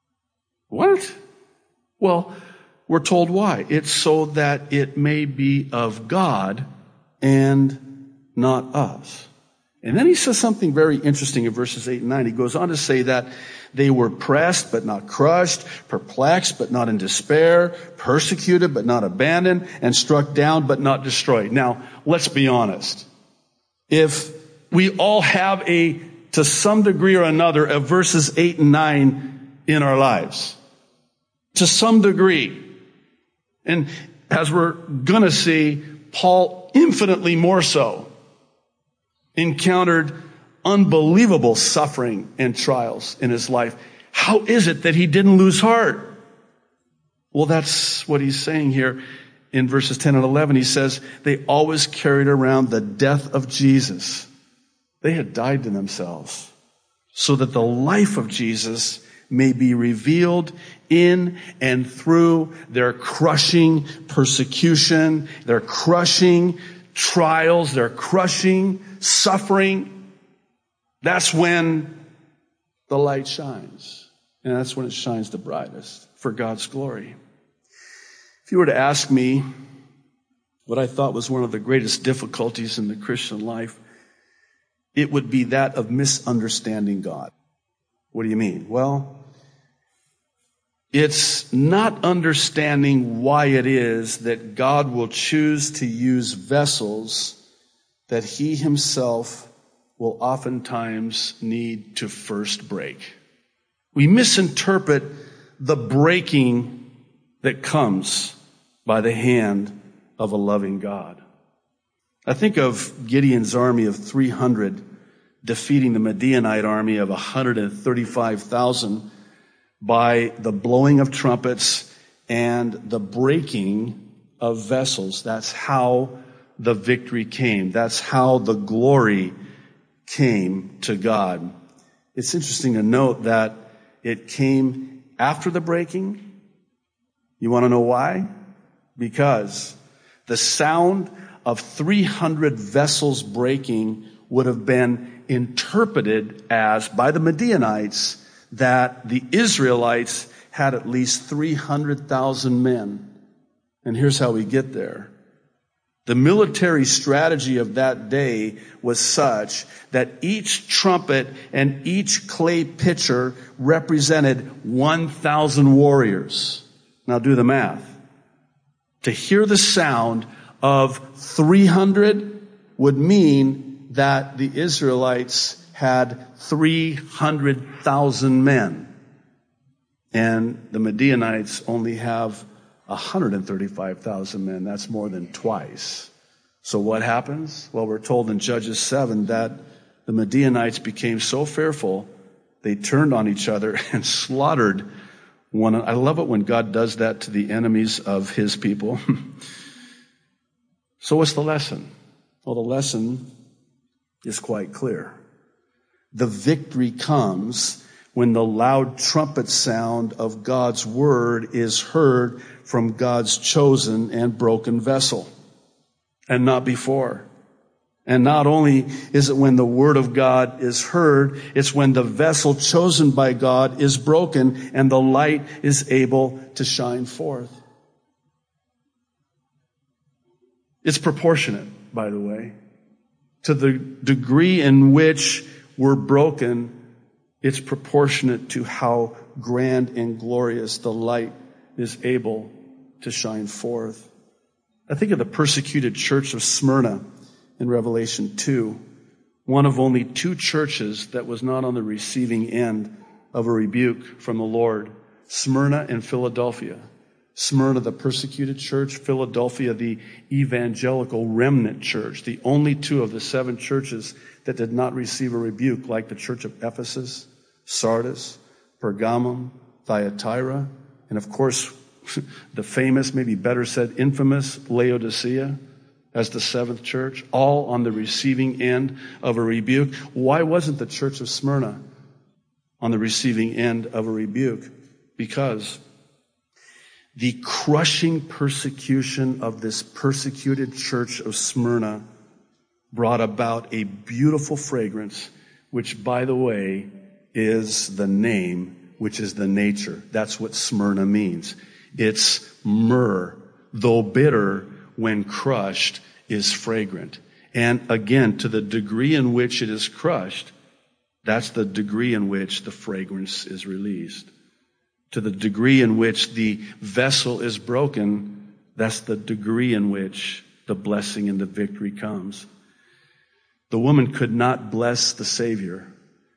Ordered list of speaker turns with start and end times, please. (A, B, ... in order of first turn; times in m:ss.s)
0:00.7-0:01.2 A
0:02.0-0:02.4 A
0:02.9-0:06.7 A
0:07.2-0:09.3 A
0:09.8-0:23.1 A
0:23.9-0:30.6 A
0:31.5-0:32.7 A
0:33.6-0:38.1 A
0:39.4-0:46.2 A
0:47.3-0:49.0 A
0:49.5-0:54.3 A
0:55.0-0:56.5 A
0:57.1-1:09.9 A
1:11.0-1:12.0 A
1:12.9-1:17.2 A
1:18.5-1:19.4 A
1:20.7-1:23.8 A
1:25.0-1:27.3 A
1:28.1-1:29.2 A
1:30.9-1:37.4 A
1:38.1-1:43.2 A
1:43.9-1:46.9 A
1:47.4-1:51.2 A
1:52.3-1:54.8 A
1:55.4-1:59.1 A
1:59.8-2:09.4 A
2:10.1-2:11.5 A
2:12.2-2:16.2 A
2:17.4-2:18.3 A
2:19.0-2:33.1 A
2:33.8-2:35.1 A
2:36.1-2:48.0 A
2:49.0-2:58.9 A
3:00.1-3:06.1 A
3:06.6-3:12.1 A
3:12.6-3:14.9 A
3:15.5-3:19.0 A
3:21.0-3:21.9 A
3:22.4-3:23.3 A
3:24.2-3:25.2 A
3:26.1-3:35.3 A
3:36.3-3:37.3 A
3:38.1-3:47.6 A
3:50.8-3:52.6 A
3:53.4-3:56.8 A
3:57.4-4:04.1 A
4:04.9-4:07.0 A
4:07.6-4:08.8 A
4:09.5-4:16.8 A
4:17.4-4:35.6 A
4:36.1-4:41.8 A
4:42.8-4:45.8 A
4:47.2-4:52.0 A
4:52.9-5:10.5 A
5:11.2-5:14.3 A
5:15.1-5:22.5 A
5:23.7-5:25.9 A